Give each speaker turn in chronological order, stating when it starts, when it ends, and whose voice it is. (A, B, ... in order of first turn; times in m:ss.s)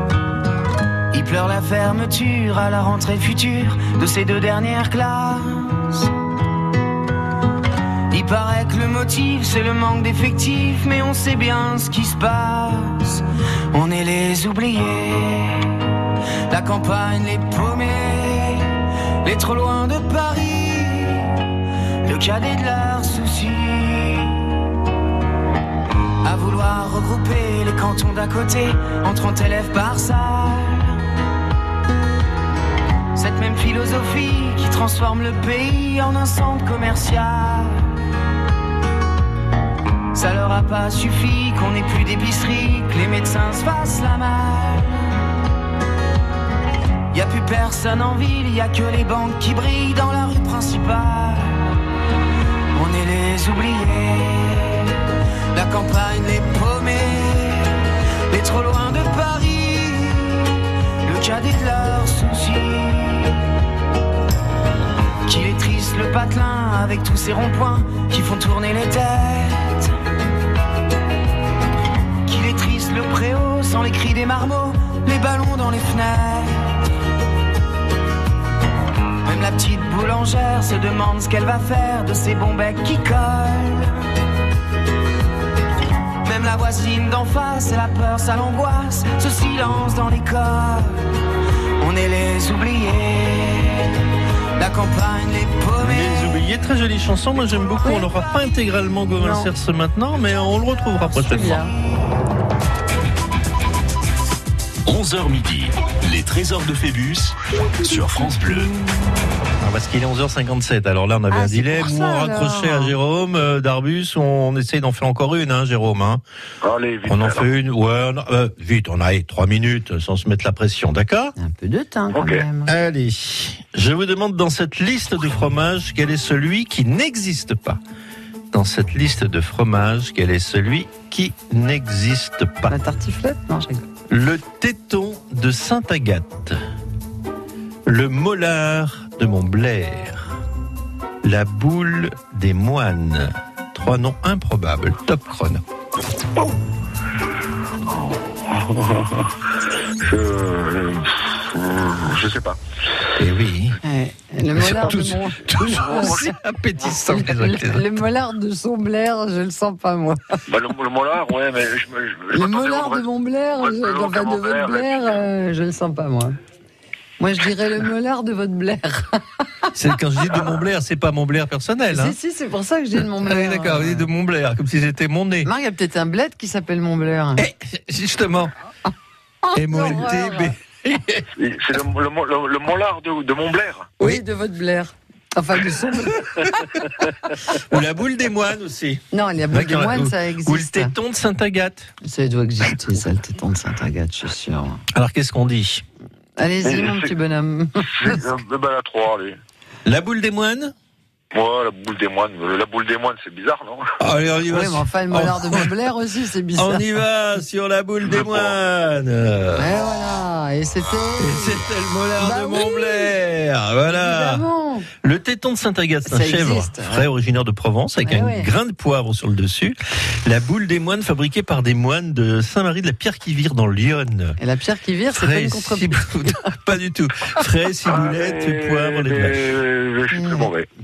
0:01.1-0:06.0 A
0:08.1-0:15.7 A
0:16.5-0:18.7 A
0:19.2-0:21.3 A
0:22.1-0:24.4 A
0:26.2-0:31.0 A
0:33.2-0:37.8 A
0:40.1-0:45.1 A
0:47.1-0:51.6 A
0:52.8-0:54.9 A
0:55.5-0:57.7 A
0:58.3-1:00.5 A
1:01.1-1:03.3 A
1:05.3-1:09.9 A
1:12.3-1:16.7 A
1:19.2-1:24.0 A
1:26.2-1:31.0 A
1:31.8-1:33.9 A
1:34.6-1:36.3 A
1:35.8-1:41.6 B
1:37.8-1:38.1 C
1:39.2-1:39.5 C
1:41.2-1:41.7 C
1:44.9-1:48.7 D
1:49.6-1:56.2 B
1:51.3-1:52.9 C
1:56.6-1:57.5 E
1:57.1-2:01.4 B
2:01.4-2:02.7 C
2:02.1-2:02.4 E
2:02.7-2:07.8 B
2:08.5-2:12.8 B
2:12.7-2:13.9 C
2:14.1-2:16.6 B
2:17.9-2:20.3 B
2:21.2-2:25.6 B
2:27.9-2:29.3 E
2:30.0-2:32.6 E
2:33.2-2:33.8 B
2:33.8-2:36.2 C
2:34.5-2:38.0 B
2:35.7-2:37.1 E
2:37.0-2:40.4 C
2:40.5-2:45.3 E
2:42.3-2:46.4 C
2:47.2-2:49.2 C
2:49.8-2:52.2 B
2:51.9-2:54.1 C
2:53.0-2:55.5 B
2:55.4-2:57.5 C
2:57.4-2:58.5 B
2:59.4-3:00.5 C
2:59.6-3:01.2 B
3:01.4-3:03.9 E
3:04.0-3:06.7 C
3:07.5-3:11.9 B
3:09.1-3:10.9 C
3:12.0-3:14.8 C
3:14.9-3:15.8 B
3:16.4-3:18.2 C
3:16.6-3:17.1 E
3:17.9-3:19.4 E
3:19.8-3:20.7 B
3:21.3-3:24.0 E
3:24.0-3:25.8 B
3:24.5-3:26.8 C
3:26.6-3:29.7 B
3:28.0-3:28.6 E
3:29.6-3:31.6 C
3:31.2-3:34.5 B
3:32.2-3:33.1 C
3:33.9-3:34.9 C
3:35.0-3:44.4 B
3:36.1-3:37.0 C
3:38.0-3:38.5 C
3:44.4-3:46.5 C
3:45.1-3:49.5 B
3:47.8-3:50.7 E
3:50.1-3:50.5 C